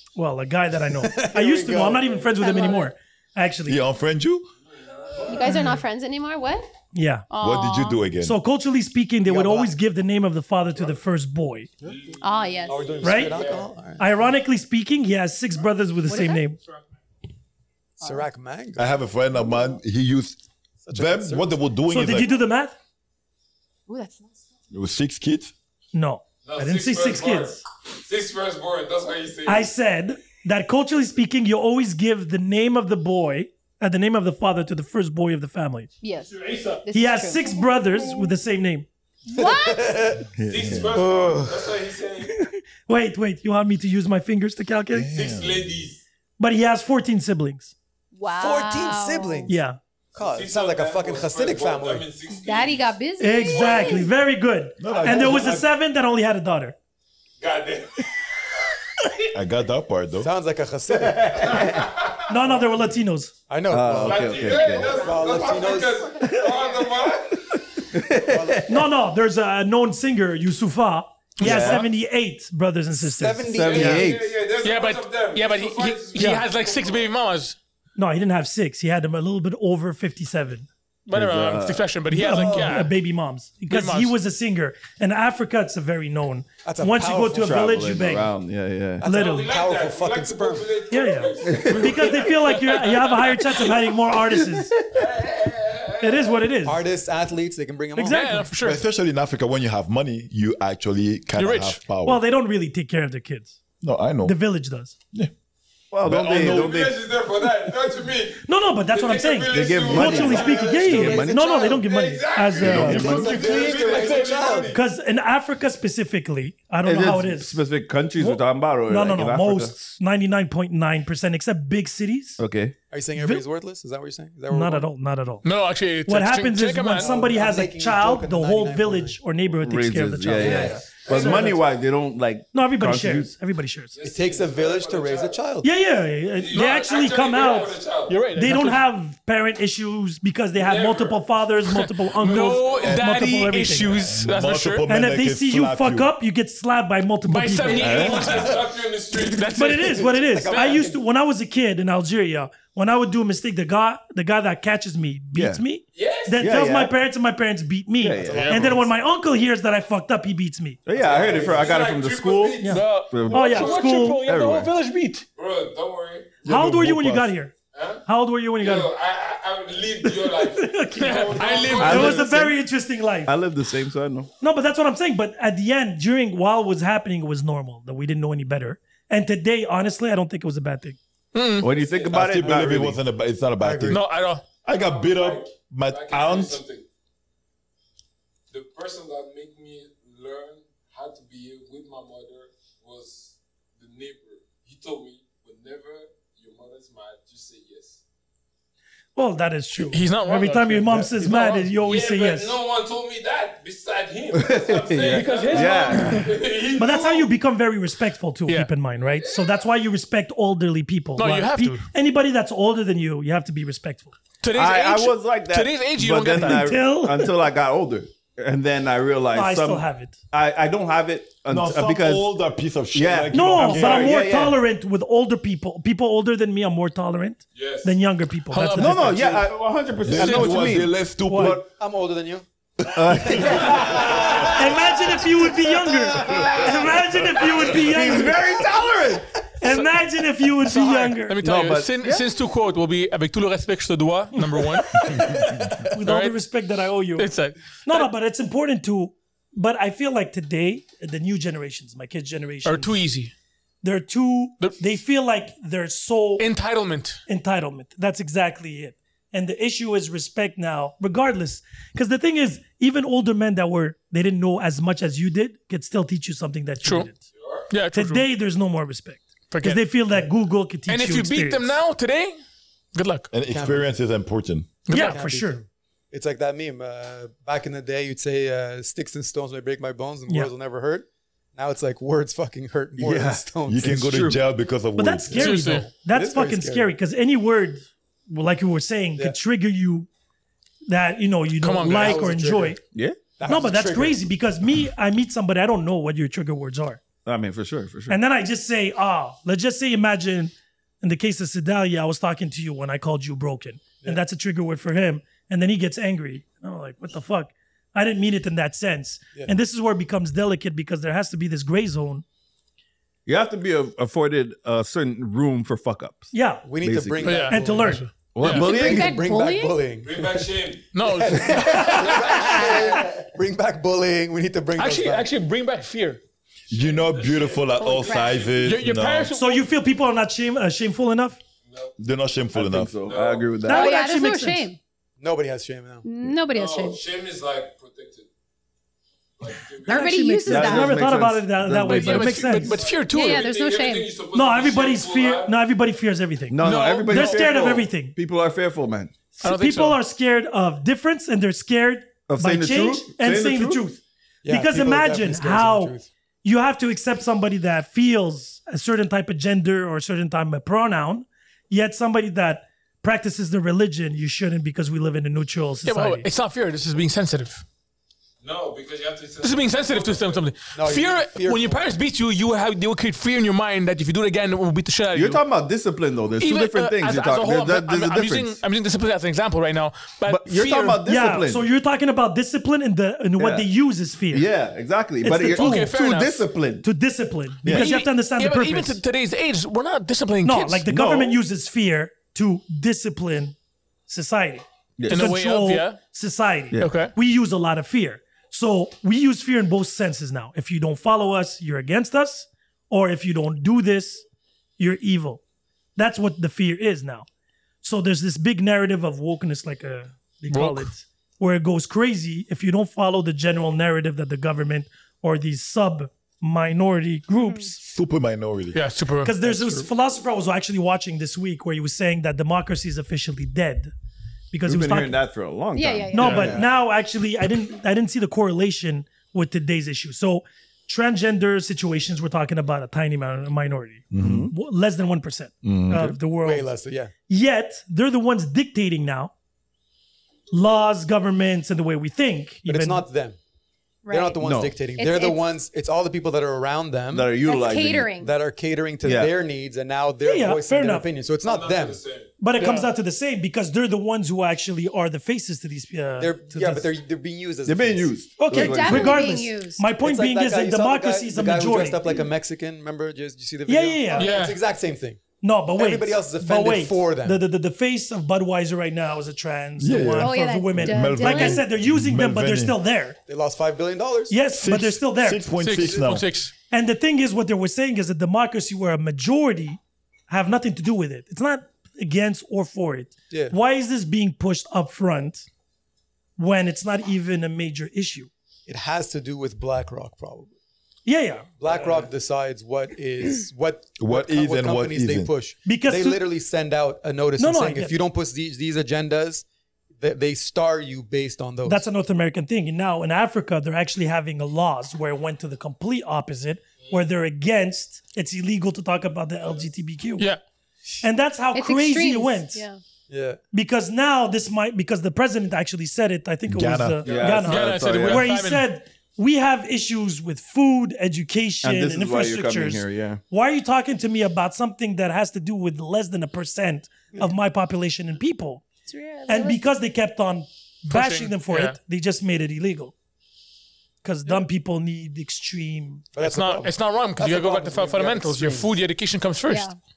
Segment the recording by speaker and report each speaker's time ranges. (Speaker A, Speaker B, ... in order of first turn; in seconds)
Speaker A: 0.2-3.8, 5.5-5.8, 6.9-7.3, 8.2-11.7, 13.0-13.4, 14.0-16.6, 21.9-22.8, 25.9-27.6, 29.5-35.9, 36.9-38.9, 42.3-45.1, 46.4-47.7, 49.5-49.8, 53.2-56.8, 62.3-63.3, 68.7-74.0, 76.2-76.5, 78.0-80.7, 82.1-88.3, 89.0-89.5, 90.9-94.8, 96.0-96.8, 98.0-98.5, 102.0-103.6, 104.2-104.9, 108.4-113.5, 114.7-117.6, 118.2-122.4, 123.2-123.4, 124.5-125.5, 126.1-131.6, 132.5-134.0, 135.6-137.8, 138.3-144.0, 144.9-148.3, 149.5-160.8, 162.6-164.2, 166.4-167.5, 168.1-168.9, 170.2-173.3, 174.4-181.0, 199.2-202.6, 205.9-214.2, 216.4-217.3, 219.3-220.2, 223.3-229.4, 231.3-231.6, 234.5-238.5, 239.6-241.4, 244.4-245.2, 245.9-247.3, 247.8-253.0, 253.8-256.5, 257.3-267.2, 267.9-271.8, 274.9-275.6, 285.0-290.1, 290.9-292.8, 293.5-297.0, 298.1-312.2, 316.3-316.6, 317.5-318.1, 329.3-331.4, 333.7-334.7, 339.9-342.8, 344.3-348.2, 349.4-366.3, 381.1-384.5, 385.2-385.9, 386.8-389.0, 390.4-393.6, 394.1-404.2, 404.8-405.4, 406.0-407.3, 407.8-417.8, 419.2-423.9, 424.5-425.2, 426.1-436.7, 437.3-439.3, 440.5-443.1, 450.2-451.1, 452.4-456.9, 458.4-462.1, 463.7-464.4, 465.4-473.2, 474.3-475.4, 476.7-485.5, 486.4-488.3, 491.1-492.0, 495.7-496.2, 497.4-498.0, 501.6-510.3, 511.0-512.6, 513.5-528.6, 529.3-532.9, 534.0-536.0
Speaker B: 0.9-2.3, 9.2-9.7, 12.7-14.2, 18.0-19.0, 20.9-21.6, 39.4-40.3, 48.4-49.5, 50.2-52.1, 60.2-61.7, 63.5-66.1, 68.2-68.7, 73.0-74.2, 82.4-82.8, 86.6-87.6, 89.1-90.8, 96.6-98.5, 110.1-112.0, 112.7-114.7, 122.9-124.9, 127.0-129.2, 130.4-131.6, 134.0-135.7, 149.9-151.0, 158.2-158.9, 161.2-161.6, 183.6-184.0, 231.4-232.4, 233.3-234.5, 240.7-241.1, 273.5-273.9, 274.9-284.0, 285.4-286.9, 291.9-292.8, 293.4-294.2, 316.6-325.3, 335.2-336.1, 354.4-356.1, 370.8-371.8, 419.4-419.9, 426.2-426.7, 436.4-437.1, 442.7-443.4, 444.1-447.4, 448.2-452.0, 456.2-458.1, 460.0-465.2, 465.8-467.4, 473.3-474.4, 488.7-490.5, 491.6-499.4, 500.0-501.8, 513.1-513.4, 536.1-538.8
Speaker C: 2.3-2.9, 5.2-6.7, 7.3-8.0, 12.2-13.0, 16.1-16.4, 23.9-24.5, 36.0-38.3, 39.3-40.2, 48.1-49.5, 52.4-54.1, 64.9-65.3, 318.4-319.9, 322.4-323.1, 327.8-328.6, 333.6-334.8, 336.0-337.0, 339.9-341.1, 343.1-344.2, 425.7-426.6, 444.1-445.5, 447.4-448.3, 458.5-459.9, 470.2-471.7, 511.5-512.8, 528.9-529.8, 539.5-539.8
Speaker D: 3.7-4.5, 7.4-8.4, 18.8-22.4, 24.7-25.5, 44.9-45.9, 54.8-55.7, 59.3-60.3, 98.6-102.2, 103.8-104.4, 106.0-107.0, 112.7-114.2, 142.8-143.2, 143.9-146.1, 166.4-167.3, 182.1-184.1, 184.7-186.6, 221.5-224.2, 230.0-231.7, 233.1-234.3, 273.3-274.8, 283.7-285.4, 326.7-329.3, 332.0-333.1, 417.8-418.8, 434.1-434.5, 435.6-436.1, 469.8-472.8, 474.6-476.3, 494.0-495.3, 516.5-517.1
Speaker E: 4.8-5.5, 11.8-13.7, 26.4-29.7, 36.4-36.8, 40.4-42.4, 45.1-46.0, 50.1-54.1, 54.9-55.4, 57.4-58.1, 61.5-62.2, 63.9-67.5, 73.6-77.1, 89.0-92.3, 94.9-96.4, 106.3-114.8, 130.5-131.2, 133.9-135.4, 136.4-138.2, 140.6-141.3, 147.7-149.5, 155.9-156.4, 160.9-162.8, 163.6-163.8, 165.4-166.4, 167.7-168.0, 168.6-172.1, 181.7-182.2, 184.7-186.8, 188.5-198.0, 201.8-207.3, 209.0-209.7, 227.6-228.0, 267.3-267.7, 320.0-320.9, 326.7-328.8, 331.6-331.9, 333.0-333.6, 336.5-338.3, 339.4-340.3, 342.6-345.6, 368.4-370.5, 451.4-452.3, 517.0-517.5
Speaker F: 40.4-41.5, 61.0-61.9, 63.7-65.0, 67.9-68.8, 71.4-71.9, 73.5-74.4, 81.1-81.9, 87.3-89.1, 91.5-91.9, 94.4-95.0, 105.9-107.0, 109.5-111.5, 112.6-114.0, 116.8-119.7, 122.4-122.8, 129.6-133.3, 147.8-148.3, 155.3-155.6, 156.4-156.9, 158.0-158.6, 160.8-164.7, 171.8-172.6, 173.3-174.3, 181.6-183.0, 204.3-206.2, 214.5-222.3, 222.9-224.6, 228.7-231.0, 232.9-234.8, 235.9-236.5, 237.6-239.3, 241.4-242.3, 245.2-245.8, 283.0-284.4, 292.9-293.2, 297.2-298.2, 313.3-316.3, 316.8-317.6, 318.3-319.2, 322.6-323.0, 332.5-334.0, 340.5-342.6, 346.5-349.1, 352.3-353.8, 375.1-378.6, 380.3-381.7, 383.4-383.7, 384.3-386.9, 387.6-387.9, 390.9-391.4, 395.0-395.3, 424.7-426.6, 434.1-434.5, 435.7-436.2, 444.4-444.8, 447.1-448.1, 449.0-449.4, 457.7-459.3, 517.0-518.3, 521.6-523.2
Speaker G: 71.4-71.9, 74.6-77.6, 81.1-82.9, 83.7-84.2, 92.1-93.6, 98.1-98.8, 101.4-101.8, 125.4-127.1, 136.6-136.8, 138.1-138.8, 141.7-144.9, 147.3-150.8, 158.3-158.8, 162.7-165.2, 171.0-172.3, 181.3-181.7, 183.9-184.4, 199.9-201.7, 205.1-206.2, 211.2-211.8, 214.4-216.7, 228.5-229.3, 230.2-230.7, 241.3-245.4, 246.1-246.4, 247.2-248.1, 252.7-253.3, 256.4-257.2, 266.8-267.1, 267.7-268.3, 269.5-269.8, 270.9-272.4, 272.9-273.3, 274.9-275.2, 285.4-285.9, 291.6-292.2, 317.2-318.8, 320.9-322.3, 324.8-326.2, 328.6-329.6, 341.9-343.5, 346.6-347.6, 349.4-350.0, 365.9-367.6, 369.4-375.4, 376.4-381.0, 385.3-386.4, 387.7-390.9, 395.1-396.0, 396.8-397.1, 410.5-410.9, 418.7-419.3, 426.2-426.4, 452.6-452.9, 464.2-464.6, 475.6-476.5, 517.4-518.7, 530.9-531.8, 536.2-539.7